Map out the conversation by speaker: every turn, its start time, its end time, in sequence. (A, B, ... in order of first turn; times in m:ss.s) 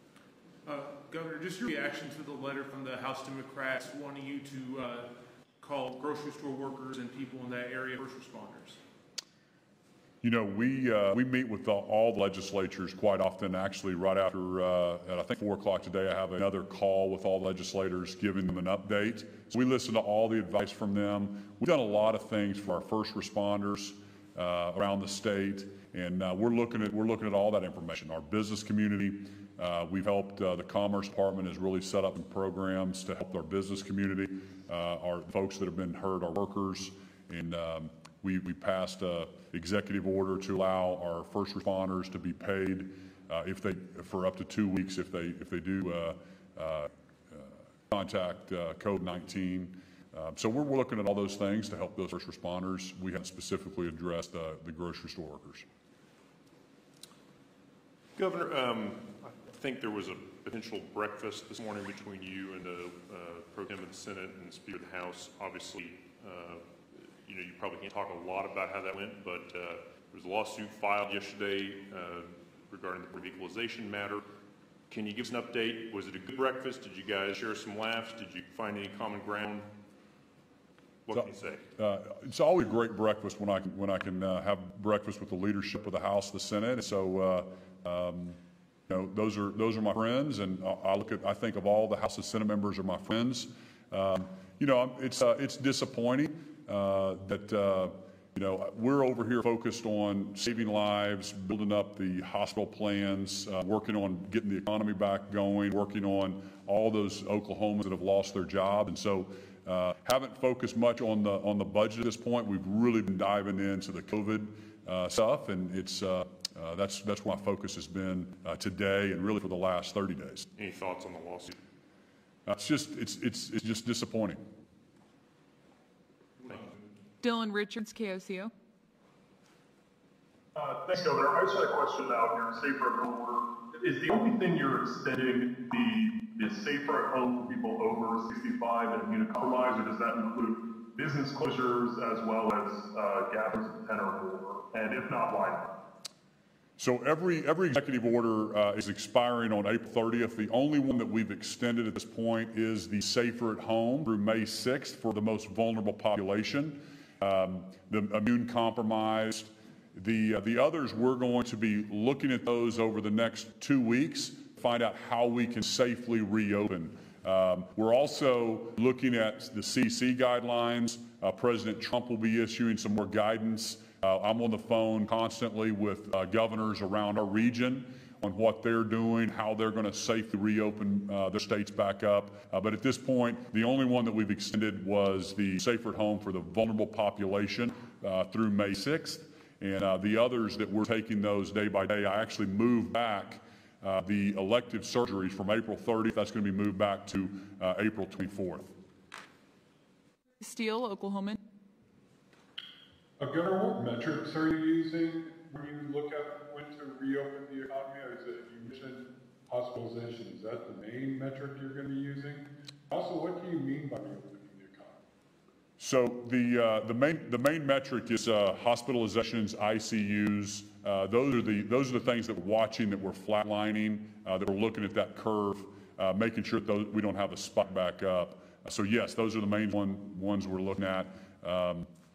0:00.6-0:08.8 A
0:10.2-0:55.6 B
0:58.2-1:14.2 C
1:14.9-1:19.7 C
1:21.0-1:21.6 C
1:21.1-2:00.5 B
2:00.6-2:01.6 C
2:02.4-2:04.4 B
2:07.2-2:08.5 D
2:10.5-2:25.7 E
2:26.8-3:18.7 B
3:20.4-3:21.4 D
3:23.2-3:35.0 F
3:35.8-3:51.9 B